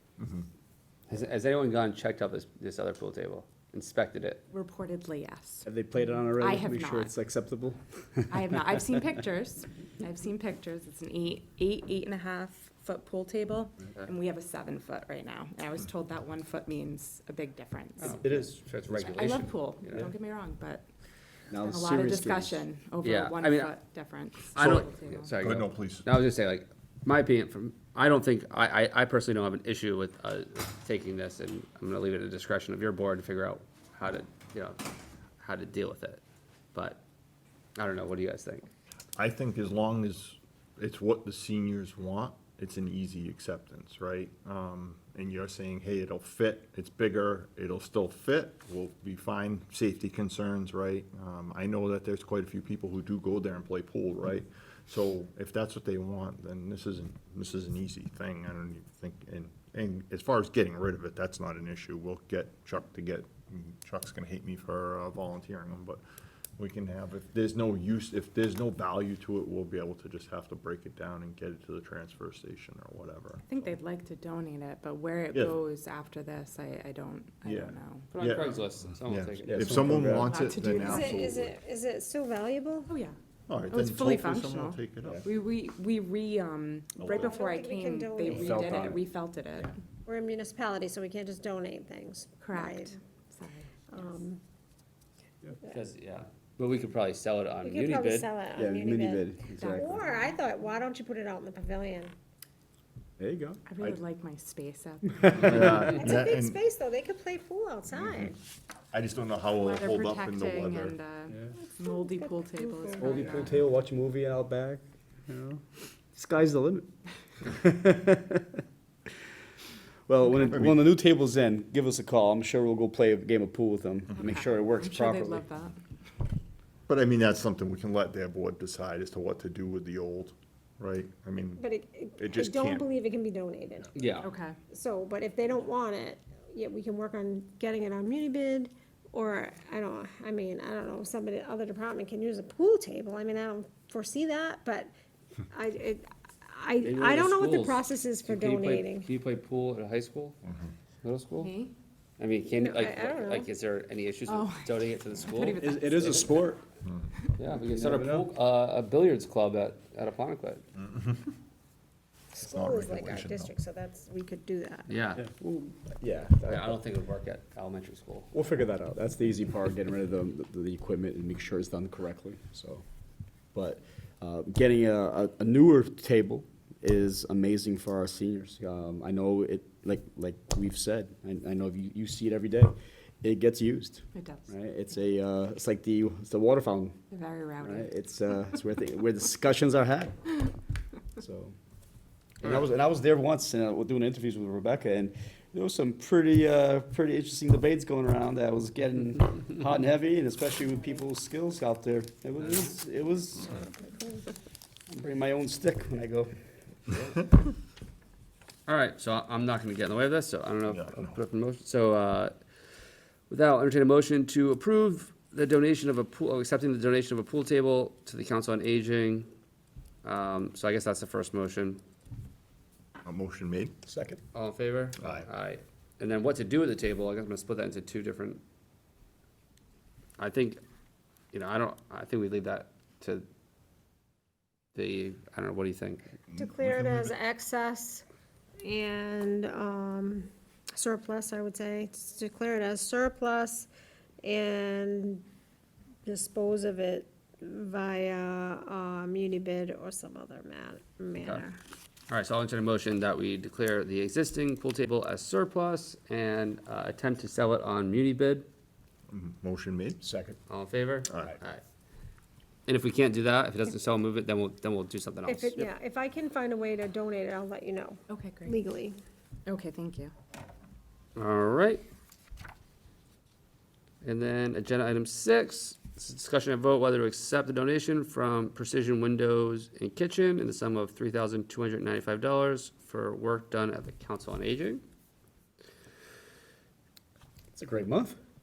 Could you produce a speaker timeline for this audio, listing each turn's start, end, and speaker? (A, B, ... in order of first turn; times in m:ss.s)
0:00.2-0:00.5 A
0:01.1-0:04.4 B
0:04.5-0:05.7 C
0:05.6-0:08.5 D
0:06.4-0:07.1 C
0:08.3-0:18.2 C
0:18.0-0:19.2 D
0:18.0-0:20.1 B
0:19.0-0:20.9 C
0:21.5-0:22.7 D
0:21.6-0:25.3 C
0:23.0-0:23.8 B
0:24.5-0:34.8 B
0:24.6-0:26.0 A
0:35.4-0:36.2 B
0:36.7-0:37.0 B
0:37.8-0:38.7 B
0:39.2-1:06.0 A
1:06.6-1:13.8 A
1:13.5-1:18.1 C
1:17.4-1:21.6 A
1:18.1-1:19.5 B
1:19.5-1:20.4 D
1:20.2-1:21.3 C
1:20.8-1:22.9 E
1:22.9-1:23.2 C
1:23.5-1:25.3 A
1:23.7-1:29.8 C
1:27.1-1:28.9 E
1:28.3-1:29.0 D
1:30.0-1:32.9 E
1:32.4-1:33.7 C
1:33.9-1:34.4 E
1:35.7-1:38.3 B
1:37.6-1:42.2 E
1:38.6-1:40.0 D
1:39.6-1:40.4 C
1:43.2-1:44.0 D
1:43.7-1:45.9 C
1:45.2-1:45.9 D
1:45.4-1:46.6 A
1:45.9-1:48.4 E
1:47.9-1:48.4 A
1:48.9-1:51.0 A
1:49.6-1:53.5 C
1:51.9-1:53.2 E
1:53.0-1:56.9 D
1:57.4-1:58.6 D
2:00.1-2:05.5 D
2:00.3-2:00.8 A
2:04.2-2:05.8 C
2:06.9-2:13.0 A
2:11.6-2:13.9 E
2:14.0-2:14.3 B
2:14.2-2:14.6 C
2:14.7-2:24.9 E
2:25.5-2:29.1 E
2:26.8-2:30.4 B
2:30.4-2:30.7 A
2:31.0-2:31.5 B
2:31.4-2:31.7 C
2:32.2-2:35.6 B
2:32.5-2:33.5 E
2:34.3-2:36.5 C
2:35.6-2:36.6 D
2:37.4-2:40.6 B
2:37.6-2:38.3 D
2:40.8-2:41.3 A
2:42.3-2:44.9 E
2:42.4-2:43.6 A
2:44.9-2:45.2 B
2:45.2-2:46.8 D
2:46.5-2:48.3 B
2:48.3-2:52.8 D
2:53.5-3:07.0 D
3:04.1-3:04.6 C
3:07.1-3:07.9 C
3:07.6-3:10.4 D
3:11.2-3:11.6 D
3:12.4-3:23.7 D
3:24.9-3:26.4 D
3:28.7-3:32.4 B
3:30.7-3:31.2 A
3:33.3-3:39.3 B
3:40.0-3:41.8 B
3:43.0-3:43.8 A
3:43.9-3:44.2 D
3:44.3-3:48.4 B
3:45.0-3:45.3 A
3:50.2-3:50.6 B
3:51.3-3:53.2 B
3:54.8-3:56.1 B
3:56.3-3:57.1 A
3:56.4-3:58.0 E
3:58.6-4:03.7 E
4:04.2-4:05.2 E
4:06.0-4:11.6 E
4:12.1-4:18.5 B
4:19.1-4:20.0 A
4:20.0-4:20.4 D
4:20.5-4:21.6 B
4:21.1-4:21.4 A
4:22.7-4:25.7 B
4:25.3-4:29.0 E
4:28.1-4:28.6 C
4:29.5-4:30.1 C
4:31.2-4:31.8 B
4:34.0-4:44.8 B
4:47.5-4:48.2 D